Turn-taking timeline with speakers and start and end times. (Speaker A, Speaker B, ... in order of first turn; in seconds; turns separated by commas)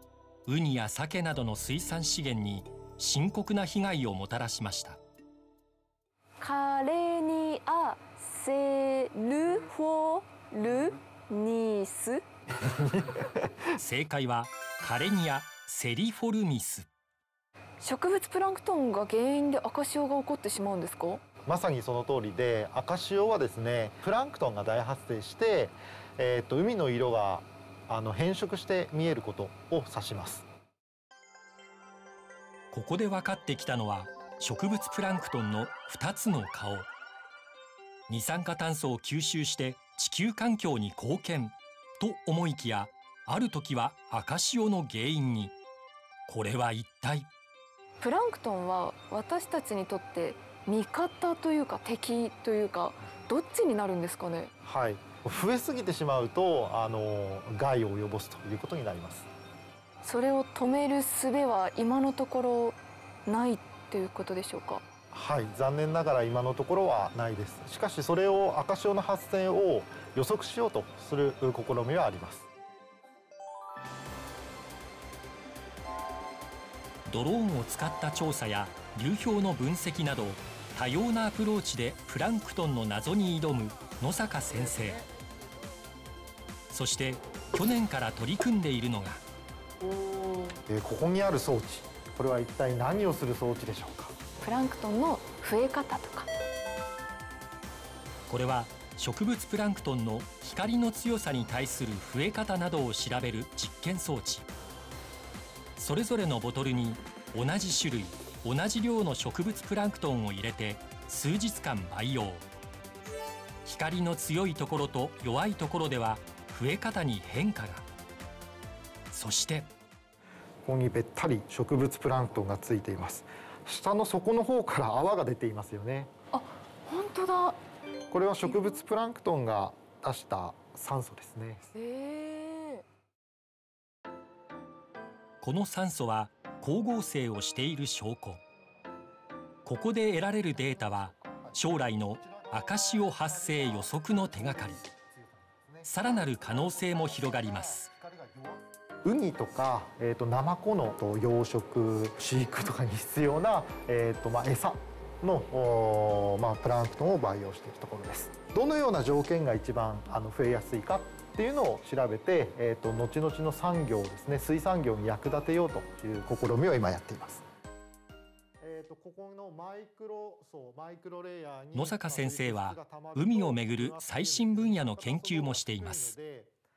Speaker A: 0.5-5.0, Speaker B: 6.4-12.2, Speaker A: 13.8-16.9, Speaker B: 17.8-21.2, Speaker C: 21.4-30.4, Speaker A: 32.7-36.9, Speaker A: 38.1-45.5, Speaker A: 46.3-47.3, Speaker B: 48.0-54.5, Speaker C: 54.6-59.3, Speaker B: 60.0-64.8, Speaker C: 65.1-72.5, Speaker A: 77.0-85.0, Speaker C: 84.5-85.0, Speaker A: 86.7-89.2, Speaker B: 90.0-90.5, Speaker C: 90.7-94.2, Speaker B: 94.4-96.3, Speaker A: 98.3-104.5, Speaker A: 105.8-112.4, Speaker A: 113.6-117.8, Speaker A: 119.1-119.7, Speaker C: 120.6-126.1, Speaker B: 126.3-127.6, Speaker C: 128.1-131.7, Speaker B: 128.5-128.8, Speaker B: 131.7-132.8, Speaker A: 135.4-138.4, Speaker A: 139.6-144.8, Speaker C: 140.7-167.4, Speaker A: 145.8-147.9, Speaker C: 168.6-176.5, Speaker A: 171.7-176.1